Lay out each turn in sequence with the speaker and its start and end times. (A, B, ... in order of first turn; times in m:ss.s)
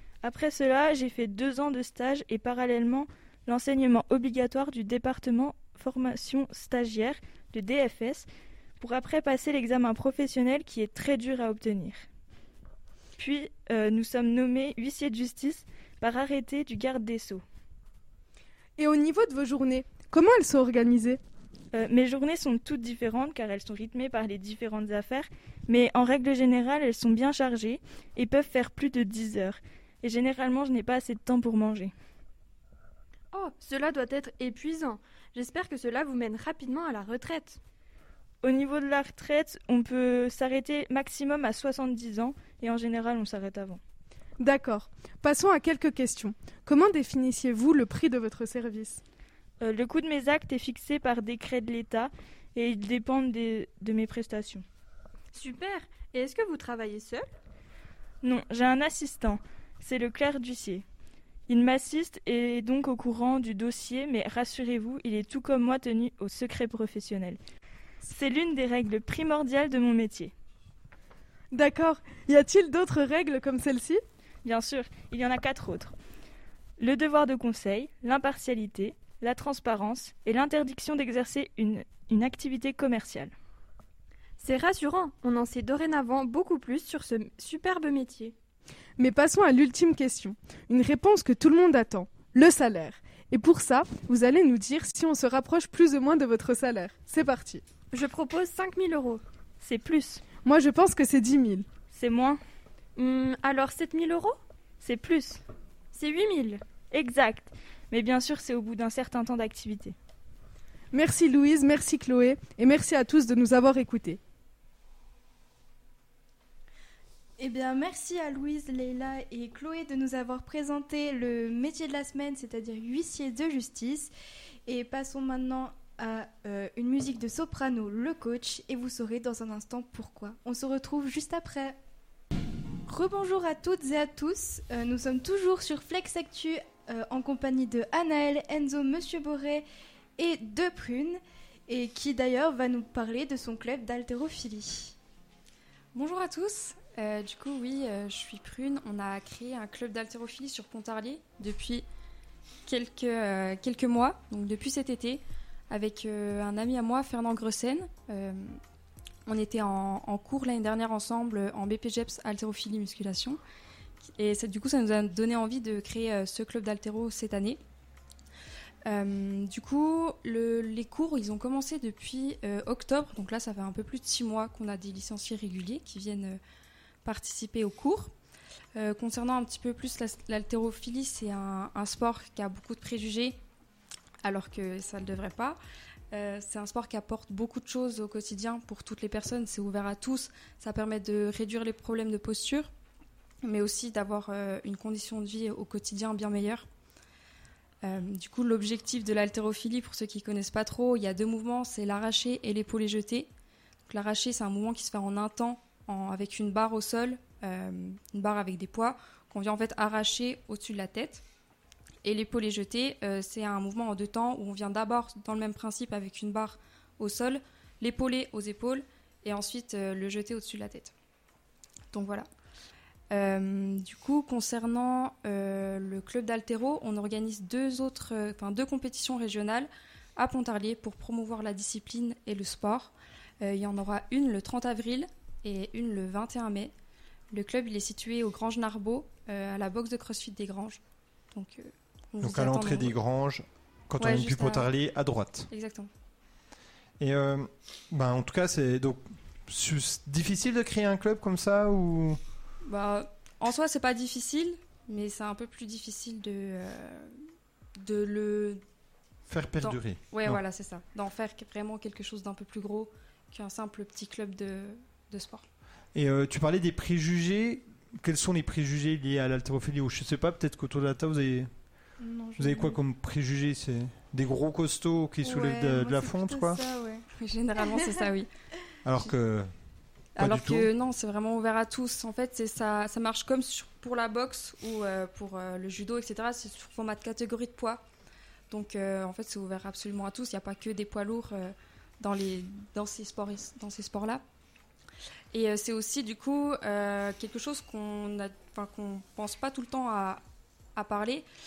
0:00.2-0:08.3 A
0:08.8-0:12.0 A
0:13.2-0:17.4 A
0:18.8-0:21.2 B
0:21.7-0:31.9 A
0:33.3-0:37.6 C
0:38.4-0:43.8 A
0:44.4-0:49.0 B
0:49.6-0:54.6 A
0:55.3-0:57.3 C
0:58.2-1:00.8 A
1:01.5-1:07.4 A
1:08.0-1:10.3 A
1:11.5-1:14.0 B
1:14.4-1:15.9 A
1:16.8-1:23.3 A
1:24.4-1:28.3 C
1:29.0-1:37.6 B
1:37.9-1:39.2 C
1:39.6-1:40.2 A
1:40.4-1:41.7 B
1:41.9-1:42.4 A
1:43.0-1:44.4 C
1:44.8-1:45.4 A
1:45.9-1:46.6 C
1:46.8-1:50.0 A
1:50.9-1:54.2 B
1:57.4-2:04.1 D
2:04.7-2:11.8 D
2:12.9-2:19.6 D
2:20.2-2:25.0 D
2:25.9-2:31.9 E
2:32.7-2:38.6 E
2:39.3-2:43.4 E
2:44.0-2:47.6 E
2:48.8-2:56.4 E
2:57.0-2:58.1 E
2:58.8-3:03.4 E
3:04.2-3:05.6 E
3:06.1-3:12.7 E
3:13.4-3:16.7 E
3:17.8-3:23.3 E
3:23.9-3:31.2 E
3:32.0-3:40.9 E
3:41.9-3:42.3 E
3:43.1-3:56.7 E
3:57.3-4:00.8 E
4:01.3-4:03.0 E
4:02.2-4:05.5 F
4:04.0-4:04.7 E
4:05.5-4:05.9 E
4:07.0-4:12.2 F
4:12.6-4:17.1 E
4:17.8-4:18.6 E
4:19.3-4:20.4 F
4:19.6-4:25.5 E
4:26.0-4:31.5 F
4:32.0-4:32.8 D
4:32.4-4:36.6 F
4:35.2-4:37.0 D
4:37.1-4:38.3 E
4:38.8-4:39.5 F
4:40.2-4:40.7 F
4:40.2-4:47.8 E
4:48.5-4:54.2 E
4:55.3-5:00.2 E
5:00.8-5:01.2 E